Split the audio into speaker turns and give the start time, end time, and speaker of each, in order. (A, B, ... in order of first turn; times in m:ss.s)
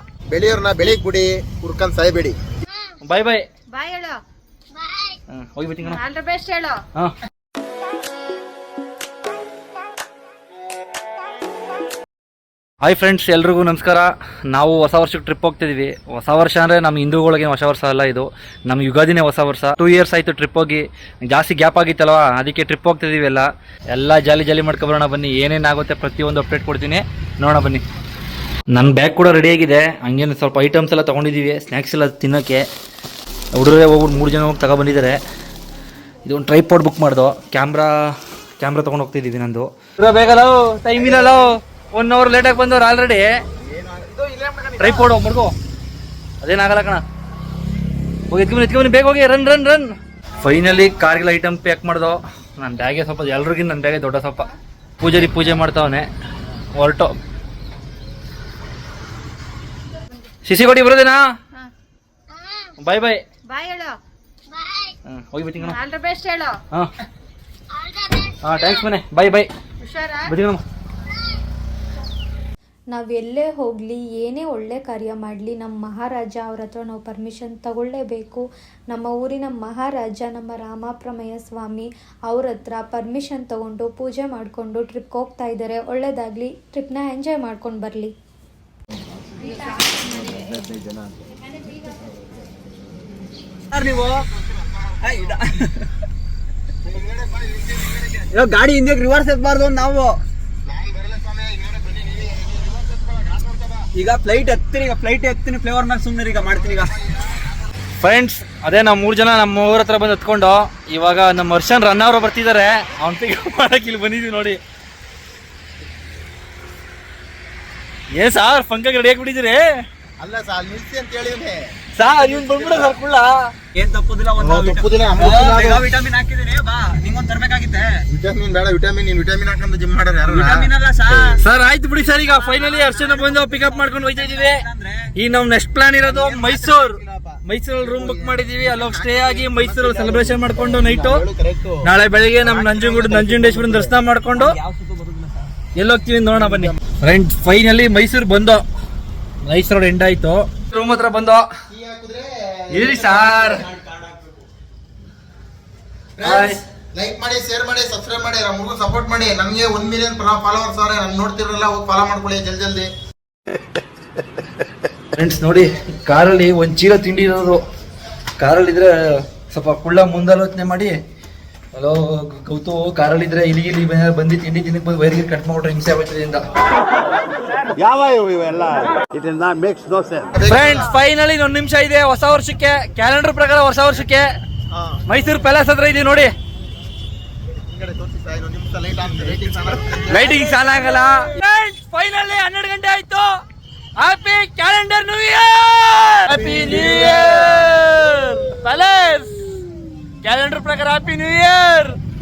0:00.3-0:02.4 A
0:03.0-0:03.4 B
0:03.7-0:04.2 C
0:05.3-0:06.0 B
0:05.8-0:06.8 C
0:12.8-0:27.8 B
0:28.7-0:32.7 B
0:33.6-0:35.2 B
0:36.3-0:43.3 B
0:41.0-0:41.6 A
0:43.8-0:44.9 D
0:44.8-0:45.6 B
0:46.4-0:47.0 B
0:48.3-0:56.1 B
0:56.8-0:57.1 B
1:00.4-1:01.2 B
1:02.8-1:03.2 B
1:03.5-1:04.0 C
1:05.1-1:05.8 B
1:05.6-1:06.6 C
1:08.4-1:09.5 B
1:09.8-1:10.4 C
1:10.3-1:10.6 B
1:12.9-1:28.2 E
1:30.3-1:30.9 D
1:33.7-1:34.3 D
1:34.3-1:35.1 A
1:35.0-1:35.9 D
1:36.8-1:38.3 A
1:38.3-1:40.2 D
1:40.6-1:43.9 A
1:44.0-1:47.0 D
1:46.8-1:47.2 A
1:48.0-1:54.6 B
1:58.1-1:59.8 B
2:00.2-2:03.0 A
2:02.0-2:03.4 B
2:03.8-2:08.0 D
2:04.4-2:05.9 A
2:08.1-2:11.4 A
2:10.3-2:11.4 D
2:11.4-2:14.6 B
2:12.2-2:15.1 D
2:15.2-2:21.2 B
2:16.0-2:16.7 D
2:16.4-2:21.8 A
2:21.8-2:24.6 B
2:22.4-2:23.9 A
2:24.3-2:25.6 D
2:25.8-2:28.6 B
2:26.4-2:26.8 A
2:29.4-2:31.4 B
2:31.7-2:34.3 A
2:32.7-2:33.7 B
2:36.2-2:42.9 A
2:36.2-2:36.6 B
2:45.1-2:47.6 B
2:48.4-2:51.0 B
2:51.7-2:56.4 B
2:57.8-3:00.1 F
3:00.3-3:00.9 A
3:00.5-3:04.3 B
3:04.7-3:05.0 A
3:05.1-3:06.3 B
3:07.7-3:10.4 A
3:10.1-3:13.3 B
3:14.0-3:19.3 B
3:16.4-3:17.4 A
3:20.2-3:22.0 B